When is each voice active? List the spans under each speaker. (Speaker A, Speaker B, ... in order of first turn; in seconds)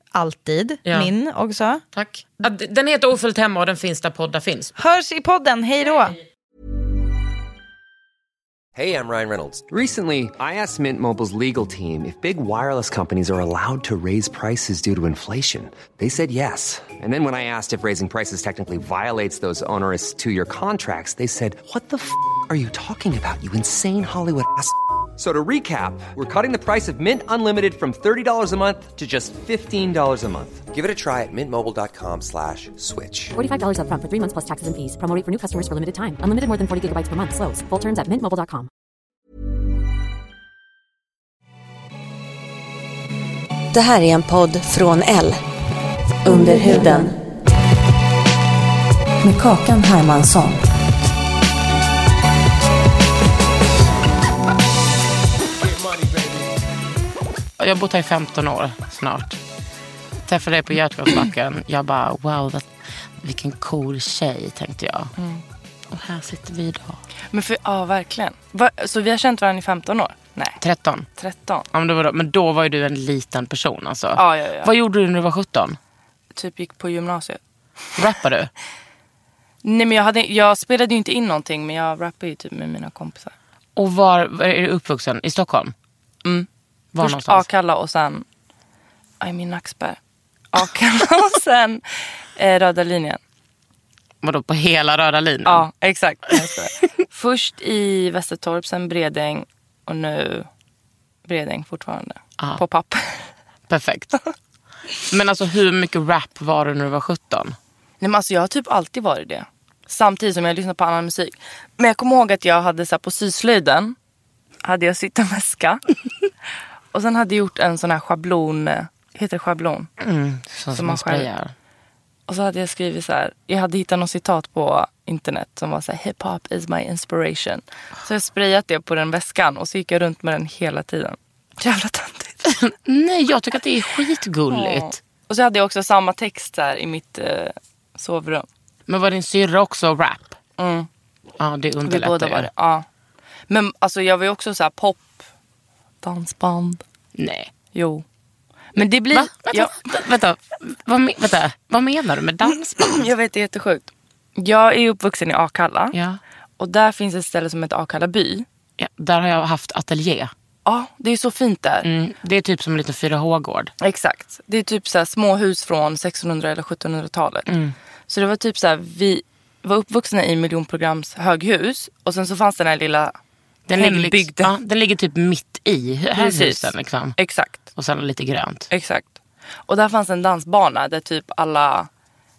Speaker A: 0.1-1.8, 4.8-6.2
Speaker B: 0.9-1.1, 1.9-4.7, 57.6-59.4, 60.3-65.1, 65.9-67.0, 70.6-71.1, 71.7-75.8, 78.0-78.5, 83.8-85.7, 86.9-87.5, 94.2-95.7, 103.7-104.1, 105.1-107.6, 120.0-121.5, 132.4-135.0, 138.9-140.4, 141.4-142.5, 147.2-147.5, 149.1-153.1, 155.9-156.2, 158.8-160.3, 161.8-163.7, 167.5-167.8, 173.7-177.2, 177.8-178.7
Speaker C: 8.8-33.3
Speaker D: 33.3-38.7
Speaker E: 43.7-45.4, 46.2-47.2, 49.2-50.6
Speaker F: 65.2-65.4, 67.3-70.6, 71.2-71.7, 74.2-74.7, 76.3-77.4, 79.6-83.3, 87.0-88.2, 89.2-90.0, 90.5-93.2, 95.5-100.5, 101.2-103.3, 108.0-114.0, 114.6-115.8, 116.9-119.9, 120.7-121.3, 122.3-132.4, 134.5-138.5, 140.6-140.9, 141.8-142.8, 143.5-145.2, 146.0-146.8, 147.7-148.0, 148.8-149.9, 152.4-156.0, 156.6-158.4, 160.7-161.9, 163.8-167.6, 168.1-173.1, 173.7-174.5, 176.2-177.7, 178.7-179.2, 179.7-181.9